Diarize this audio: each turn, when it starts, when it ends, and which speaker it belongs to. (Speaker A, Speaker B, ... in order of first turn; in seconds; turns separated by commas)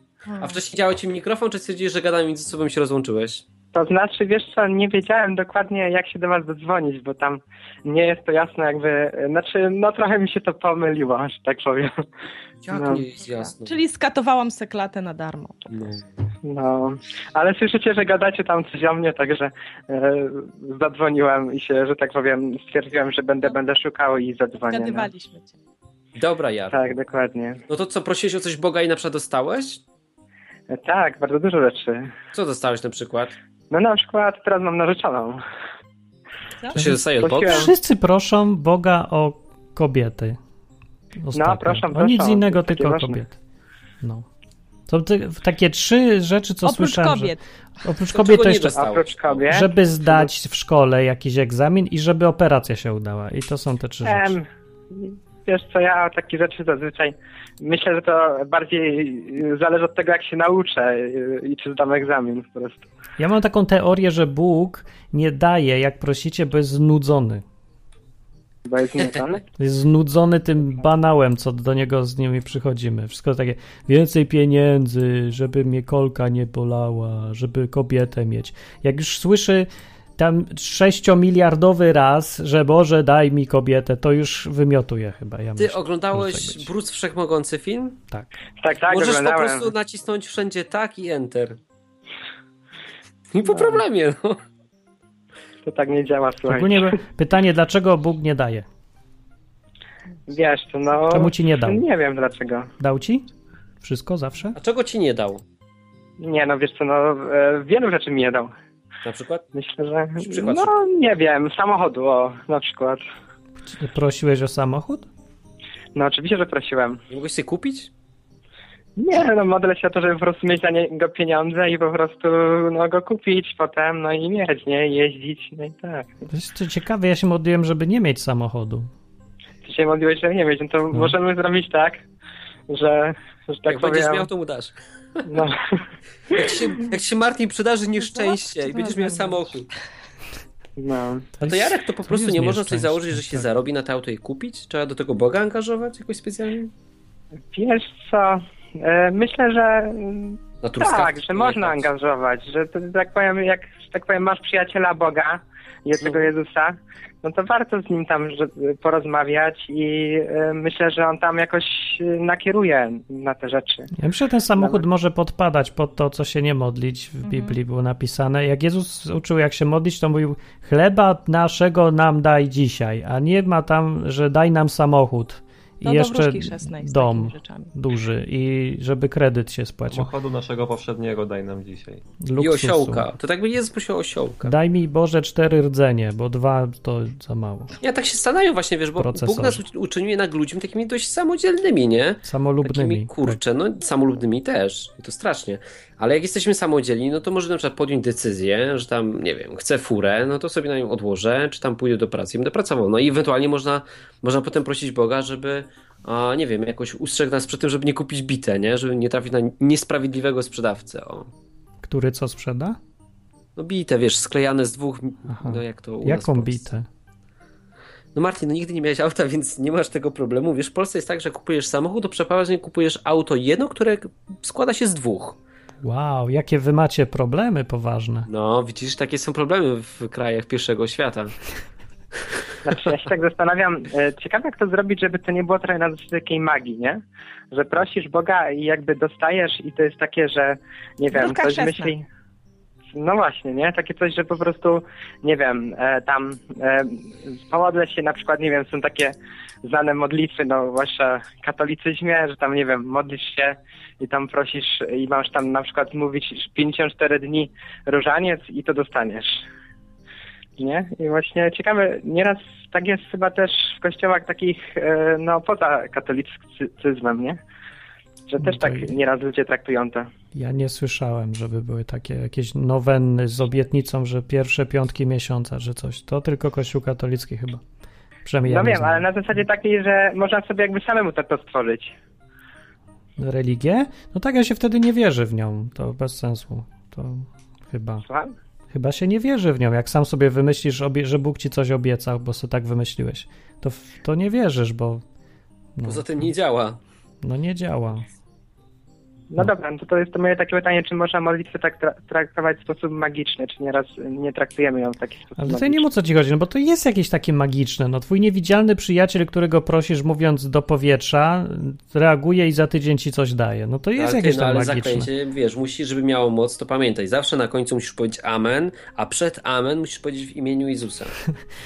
Speaker A: 0.3-0.6, Speaker B: 0.4-3.5, Speaker C: 3.7-12.0, Speaker B: 12.6-13.8, Speaker C: 12.7-13.0, Speaker A: 13.4-15.7, Speaker B: 15.7-16.0, Speaker C: 16.4-25.1, Speaker A: 24.6-25.6, Speaker B: 26.2-26.9, Speaker C: 26.7-27.6, Speaker B: 27.7-29.8, Speaker C: 30.7-32.1, Speaker B: 32.3-33.4, Speaker C: 33.7-35.4, Speaker B: 36.7-37.7, Speaker D: 36.7-40.4, Speaker C: 37.2-37.7, Speaker D: 41.2-43.4, Speaker C: 41.3-43.2, Speaker D: 44.9-48.8, Speaker A: 46.6-47.4, Speaker B: 48.1-49.5, Speaker C: 48.8-49.7, Speaker D: 49.5-54.4, Speaker C: 54.0-62.9, Speaker D: 63.2-67.4, Speaker C: 68.7-69.4, Speaker D: 69.6-86.7, Speaker B: 85.6-88.0, Speaker C: 88.6-89.7, Speaker B: 88.9-91.6, Speaker B: 93.3-94.4, Speaker C: 95.7-97.0, Speaker D: 96.5-98.7, Speaker C: 100.3-102.7, Speaker D: 101.1-101.8, Speaker D: 102.8-103.3, Speaker D: 103.8-104.6, Speaker B: 104.5-105.4, Speaker C: 106.2-108.5, Speaker B: 109.0-109.5, Speaker C: 109.5-113.0, Speaker B: 110.2-110.7, Speaker D: 113.7-115.1, Speaker C: 116.0-117.0, Speaker B: 117.1-117.9, Speaker C: 119.0-126.1, Speaker D: 126.3-128.9, Speaker C: 129.6-132.0, Speaker C: 132.7-134.3, Speaker B: 133.7-135.3, Speaker C: 135.3-136.8, Speaker B: 136.3-139.7, Speaker A: 138.0-139.5, Speaker C: 140.8-141.3, Speaker D: 141.4-143.5, Speaker B: 141.4-146.7, Speaker C: 147.5-163.9, Speaker B: 150.6-151.8, Speaker D: 164.0-180.1, Speaker C: 164.6-164.8, Speaker A: 167.2-167.6, Speaker A: 175.8-177.7, Speaker E: 179.9-182.0, Speaker D: 182.2-183.1, Speaker B: 182.4-184.5, Speaker D: 184.4-187.7, Speaker B: 187.8-211.3, Speaker D: 189.0-189.6, Speaker D: 192.2-193.4, Speaker D: 211.8-212.8, Speaker B: 213.6-216.7, Speaker D: 215.3-216.9, Speaker B: 218.1-225.4, Speaker D: 225.8-228.3, Speaker B: 228.3-231.3, Speaker C: 232.7-242.1, Speaker A: 241.1-241.9, Speaker C: 242.9-259.4, Speaker C: 260.6-267.4, Speaker C: 268.3-270.1, Speaker D: 268.4-268.9, Speaker D: 270.4-277.6, Speaker D: 278.2-279.1, Speaker C: 278.5-281.9, Speaker D: 283.2-288.0, Speaker C: 288.1-288.4, Speaker D: 288.7-295.0, Speaker D: 295.8-296.3, Speaker B: 295.8-296.8, Speaker D: 297.2-298.1, Speaker C: 299.3-305.9, Speaker D: 305.4-315.1, Speaker B: 314.0-321.1